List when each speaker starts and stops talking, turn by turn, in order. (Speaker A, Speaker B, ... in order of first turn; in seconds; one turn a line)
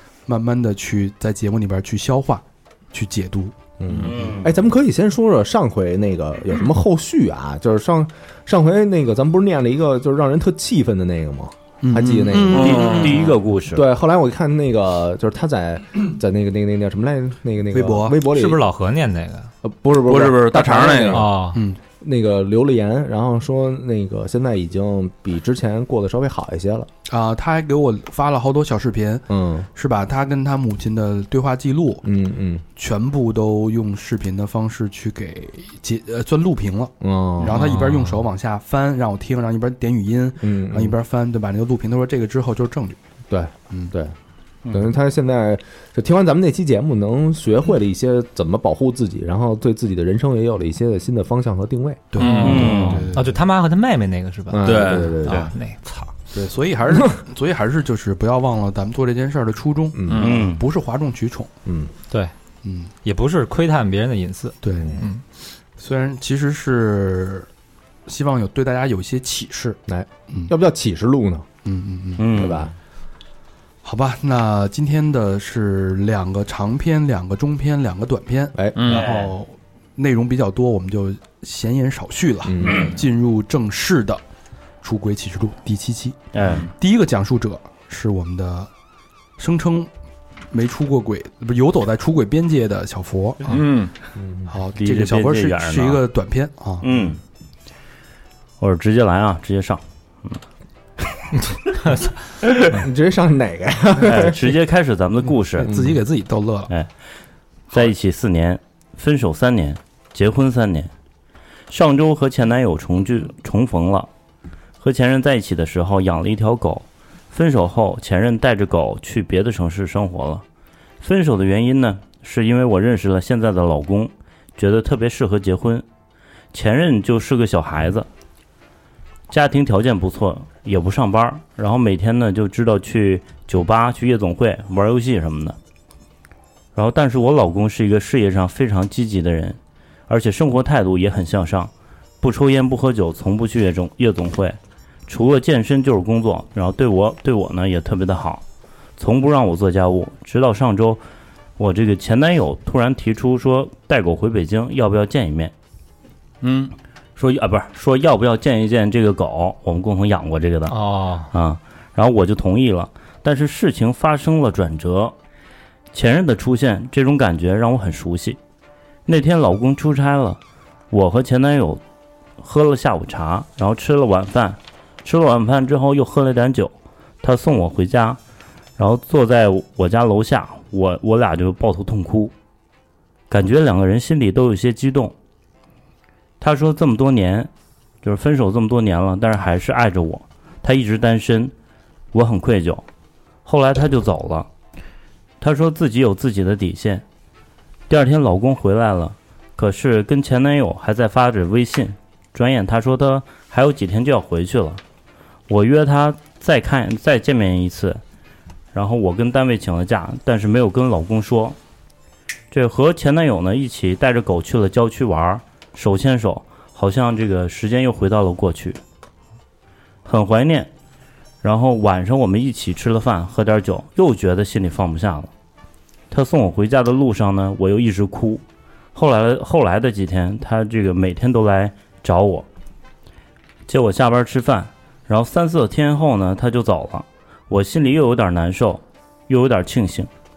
Speaker A: 0.2-3.5
Speaker B: 3.8-18.6
Speaker C: 4.0-4.5
Speaker A: 11.8-12.9
Speaker D: 11.9-13.1
Speaker C: 12.5-13.8
Speaker A: 17.7-18.2
Speaker E: 18.2-19.5
Speaker B: 19.6-21.3
Speaker D: 20.1-21.3
Speaker E: 21.1-21.6
Speaker A: 21.5-21.8
Speaker B: 22.0-26.9
Speaker A: 27.1-32.0
Speaker B: 29.3-29.7
Speaker B: 32.0-32.6
Speaker A: 32.8-43.0
Speaker B: 37.0-37.8
Speaker B: 40.4-41.0
Speaker B: 43.3-44.1
Speaker B: 44.7-52.2
Speaker A: 52.1-53.4
Speaker E: 52.2-56.1
Speaker C: 52.3-53.1
Speaker D: 52.3-52.7
Speaker B: 54.5-55.5
Speaker D: 54.6-55.1
Speaker A: 56.3-61.5
Speaker B: 59.9-60.3
Speaker D: 60.1-60.4
Speaker C: 60.1-60.6
Speaker B: 61.6-61.9
Speaker A: 62.6-62.9
Speaker E: 63.0-65.2
Speaker A: 64.6-65.0
Speaker B: 64.7-65.0
Speaker A: 65.8-67.5
Speaker A: 68.0-69.8
Speaker B: 69.9-71.5
Speaker A: 71.6-72.3
Speaker C: 72.2-72.7
Speaker B: 72.2-72.7
Speaker A: 73.8-84.2
Speaker B: 78.5-78.9
Speaker D: 78.8-79.1
Speaker C: 78.9-79.3
Speaker B: 82.4-82.9
Speaker C: 82.6-82.9
Speaker A: 84.8-88.7
Speaker C: 86.3-86.7
Speaker A: 89.4-89.9
Speaker A: 90.5-93.7
Speaker D: 93.5-93.9
Speaker B: 94.2-94.5
Speaker A: 94.5-96.9
Speaker C: 94.7-96.0
Speaker C: 96.8-97.2
Speaker C: 98.6-100.4
Speaker B: 102.6-104.4
Speaker C: 104.0-105.7
Speaker A: 105.6-106.7
Speaker B: 105.6-106.0
Speaker C: 107.7-110.9
Speaker C: 111.7-114.1
Speaker C: 114.8-120.4
Speaker C: 121.0-125.8
Speaker C: 126.5-128.1
Speaker C: 129.3-135.6
Speaker C: 136.7-148.4
Speaker C: 149.0-151.0
Speaker C: 151.6-155.5
Speaker D: 156.4-156.7
Speaker C: 157.2-160.8
Speaker E: 160.7-161.3
Speaker C: 161.3-165.1
Speaker C: 165.9-168.4
Speaker C: 169.1-170.4
Speaker C: 170.9-171.8
Speaker C: 172.4-178.2
Speaker C: 178.8-182.3
Speaker C: 183.3-185.1
Speaker C: 186.4-187.5
Speaker C: 188.0-191.5
Speaker C: 192.1-192.8
Speaker C: 193.4-194.5
Speaker C: 195.4-197.0
Speaker C: 197.9-204.8
Speaker C: 205.5-208.0
Speaker C: 208.7-211.6
Speaker C: 212.5-218.8
Speaker C: 220.0-220.7
Speaker C: 221.4-225.3
Speaker C: 226.1-228.4
Speaker C: 228.9-232.4
Speaker C: 233.7-240.1